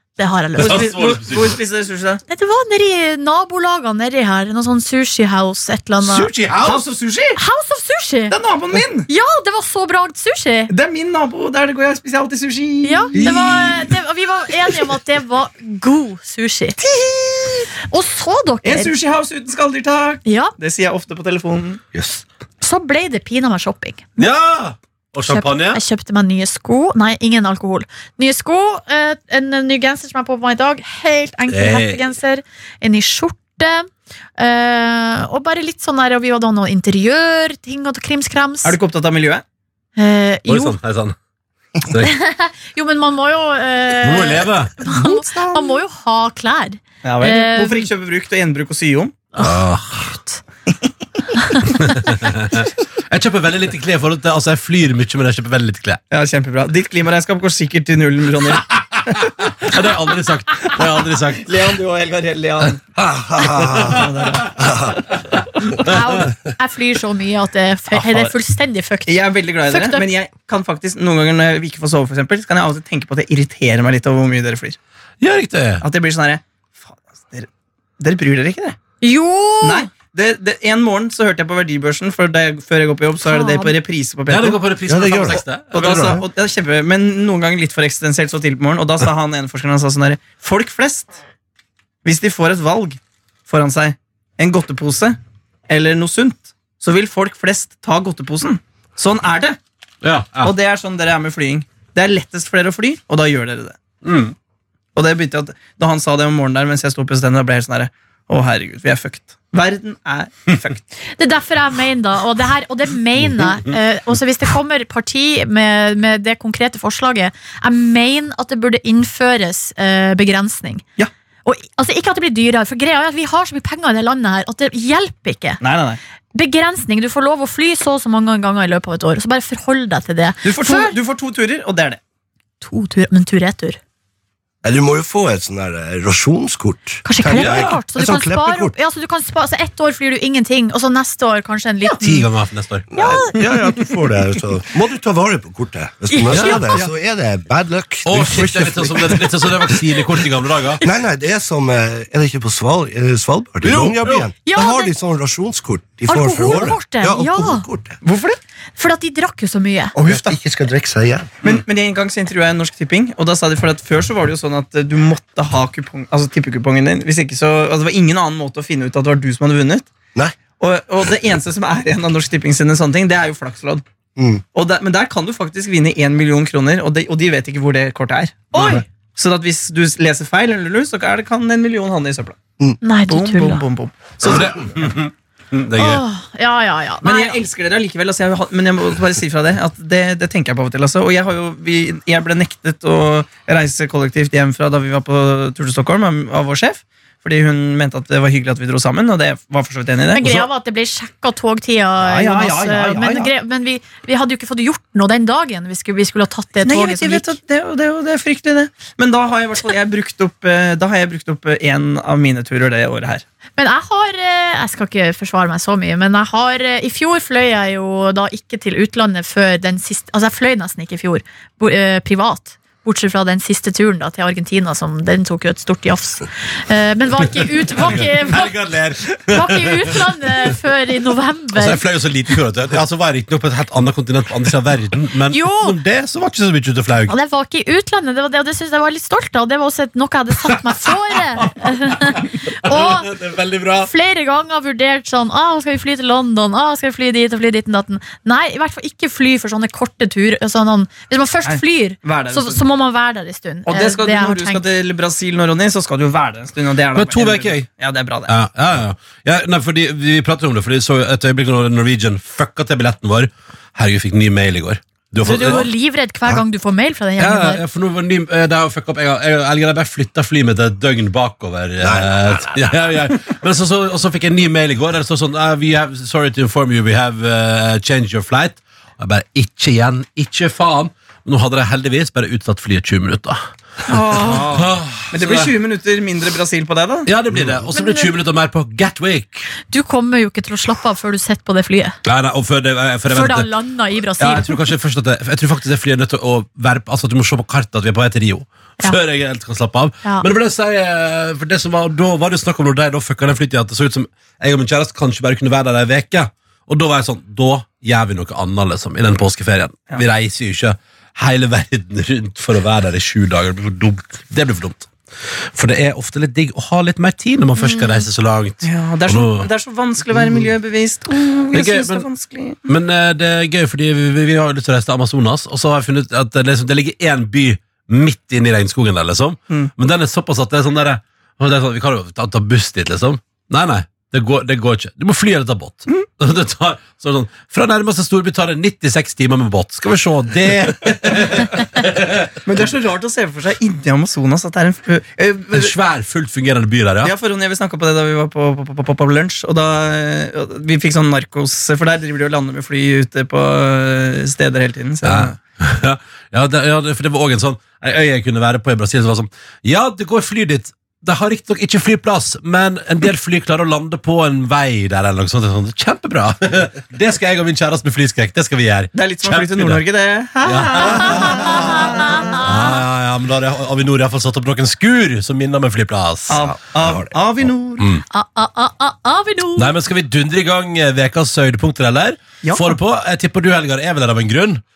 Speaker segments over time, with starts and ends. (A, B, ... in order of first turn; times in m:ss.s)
0:00.2-0:00.9 A
0:00.6-0:02.2 B
0:00.6-0:01.6 C
0:02.3-0:06.3 A
0:06.0-0:06.8 C
0:06.6-0:07.4 B
0:07.4-0:08.4 A
0:08.3-0:09.1 B
0:09.1-0:10.7 A
0:10.7-0:13.3 B
0:12.8-0:16.8 A
0:13.2-0:13.9 D
0:16.8-0:17.7 B
0:17.9-0:18.9 A
0:18.6-0:21.8 B
0:20.3-0:20.5 A
0:21.9-0:22.2 D
0:22.6-0:24.1 A
0:24.2-0:25.8 C
0:25.3-0:38.8 A
0:31.5-0:32.0 C
0:38.6-0:39.4 B
0:40.0-0:40.8 A
0:40.5-0:41.2 C
0:41.8-0:42.1 C
0:42.0-0:47.9 A
0:44.0-0:44.7 C
0:44.9-0:45.8 B
0:47.0-0:49.2 B
0:49.4-0:50.4 A
0:49.4-0:50.1 C
0:51.4-0:51.7 A
0:51.7-0:56.0 C
0:56.1-0:59.2 B
0:59.2-1:01.6 C
1:01.4-1:02.8 B
1:03.0-1:05.0 D
1:03.6-1:04.0 C
1:03.8-1:04.7 B
1:05.8-1:10.1 A
1:09.1-1:14.8 B
1:15.2-1:15.8 C
1:15.8-1:17.5 B
1:18.0-1:18.8 B
1:19.0-1:19.9 A
1:19.6-1:24.6 B
1:23.2-1:23.7 A
1:24.3-1:26.1 C
1:24.9-1:26.2 D
1:25.7-1:31.2 B
1:32.0-1:35.2 B
1:35.7-1:39.6 B
1:40.0-1:40.5 C
1:40.4-1:43.8 B
1:44.0-1:44.4 C
1:45.0-1:50.8 B
1:51.2-2:00.8 A
1:53.2-1:53.6 C
2:01.5-2:05.6 A
2:05.6-2:06.0 B
2:06.4-2:11.0 A
2:10.4-2:12.0 B
2:12.6-2:13.8 A
2:14.6-2:18.8 D
2:17.0-2:22.3 A
2:17.3-2:17.7 C
2:22.0-2:22.9 C
2:22.9-2:30.1 D
2:22.9-2:23.4 A
2:26.1-2:26.8 A
2:26.3-2:26.6 C
2:28.0-2:30.8 C
2:30.8-2:38.0 D
2:33.6-2:34.3 C
2:34.4-2:34.9 A
2:36.1-2:37.7 A
2:38.0-2:38.4 B
2:38.8-2:39.9 A
2:40.0-2:40.4 B
2:40.0-2:41.3 D
2:41.4-2:49.9 B
2:50.6-2:53.8 B
2:54.2-2:54.4 D
2:54.6-2:58.6 B
2:58.5-2:58.8 A
2:59.2-3:02.4 B
3:02.8-3:03.6 A
3:03.1-3:04.5 B
3:04.2-3:06.0 C
3:05.8-3:07.4 A
3:07.0-3:20.5 B
3:20.1-3:27.3 A
3:22.0-3:23.3 B
3:26.6-3:33.2 B
3:33.6-3:48.5 A
3:47.7-3:50.0 C
3:49.3-3:51.8 A
3:51.6-3:57.1 C
3:55.3-3:55.8 A
3:57.1-4:03.1 A
4:01.4-4:03.9 C
4:03.8-4:14.6 A
4:11.4-4:12.6 B
4:13.7-4:18.3 B
4:17.0-4:17.7 C
4:18.3-4:25.7 C
4:25.2-4:27.6 A
4:27.2-4:45.5 C
4:31.8-4:32.8 D
4:43.9-4:47.1 B
4:47.1-4:49.5 C
4:47.3-4:47.6 D
4:47.7-4:48.1 A
4:49.7-4:52.0 A
4:52.1-4:53.5 C
4:53.1-4:54.6 A
4:54.2-5:14.9 C
5:15.5-5:19.5 C
5:17.6-5:18.0 A
5:18.6-5:22.6 B
5:20.2-5:20.4 C
5:21.5-5:22.0 C
5:22.7-5:42.3 C
5:42.4-5:45.7 B
5:45.5-5:47.1 C
5:47.0-5:55.4 B
5:55.0-6:09.8 C
6:09.0-6:12.4 B
6:10.4-6:16.4 C
6:11.3-6:12.4 A
6:16.3-6:17.9 B
6:16.5-6:17.2 D
6:17.8-6:18.0 C
6:18.1-6:19.7 A
6:19.6-6:24.6 C
6:22.4-6:22.8 B